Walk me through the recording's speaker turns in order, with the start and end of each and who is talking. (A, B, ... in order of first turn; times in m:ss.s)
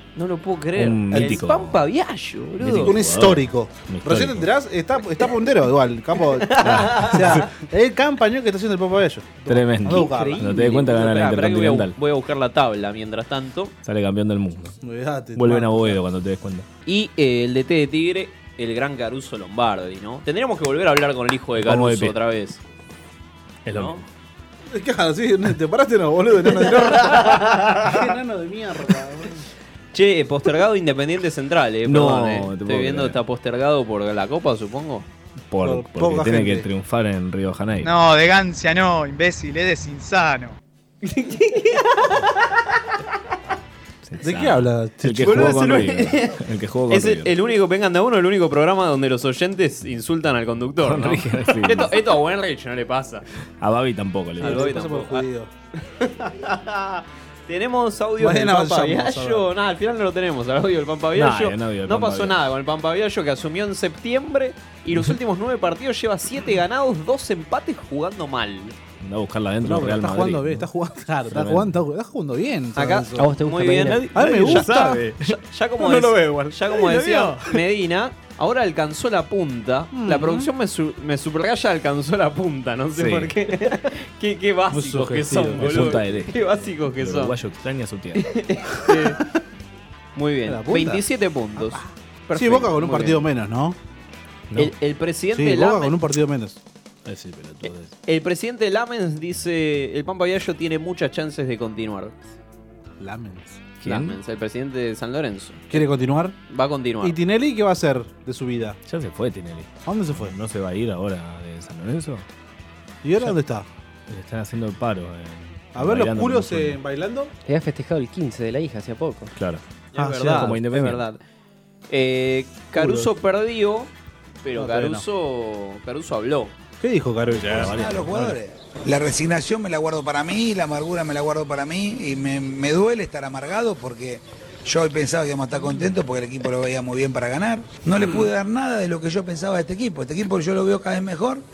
0:00.2-0:03.0 A
0:00.8-0:01.8 B
0:01.1-0:01.4 C
0:02.6-0:04.5 B
0:02.7-0:10.5 C
0:06.4-0:07.5 A
0:06.6-0:07.5 B
0:09.5-0:12.0 B
0:09.9-0:13.7 A
0:13.8-0:14.8 B
0:14.8-0:16.0 C
0:15.3-0:16.7 B
0:16.9-0:22.6 A
0:21.6-0:22.2 B
0:23.6-0:24.1 B
0:23.7-0:24.0 A
0:24.7-0:29.4 C
0:27.1-0:27.7 A
0:29.9-0:35.1 A
0:31.9-0:33.2 B
0:35.5-0:38.0 B
0:35.6-0:36.7 C
0:37.8-0:40.6 D
0:41.0-0:42.2 A
0:44.0-0:47.4 B
0:44.2-0:45.8 C
0:45.2-0:46.4 A
0:46.9-0:53.2 A
0:50.8-0:52.0 B
0:53.6-0:54.8 B
0:54.4-0:55.3 A
0:54.4-0:55.5 C
0:55.8-1:08.8 A
0:58.2-0:59.5 C
1:01.2-1:02.5 B
1:09.0-1:10.7 B
1:09.6-1:13.3 C
1:11.3-1:11.8 B
1:12.8-1:27.3 A
1:13.2-1:14.0 E
1:13.9-1:15.3 B
1:14.1-1:15.0 C
1:15.8-1:16.6 C
1:16.8-1:17.6 B
1:19.9-1:20.5 C
1:23.0-1:23.3 B
1:24.7-1:26.0 C
1:25.2-1:28.4 B
1:28.2-1:29.2 A
1:30.2-1:33.3 A
1:30.5-1:31.0 C
1:32.3-1:33.8 C
1:34.6-1:36.0 A
1:35.3-1:36.6 C
1:37.1-1:37.9 B
1:37.6-1:42.2 A
1:43.0-1:43.5 C
1:43.8-1:44.2 B
1:43.8-1:45.9 A
1:45.7-1:46.4 C
1:46.5-1:47.2 A
1:47.0-1:48.8 C
1:48.9-1:52.3 B
1:49.9-1:50.3 C
1:53.0-1:53.7 C
1:54.1-1:56.8 B
1:55.8-1:57.3 C
1:57.5-1:59.3 E
1:59.4-1:59.6 B
1:59.9-2:01.2 A
2:00.0-2:00.5 C
2:00.2-2:01.0 B
2:01.9-2:03.9 A
2:02.8-2:03.1 C
2:04.4-2:06.5 A
2:04.6-2:05.0 C
2:06.8-2:08.1 C
2:07.3-2:08.3 B
2:07.7-2:21.4 F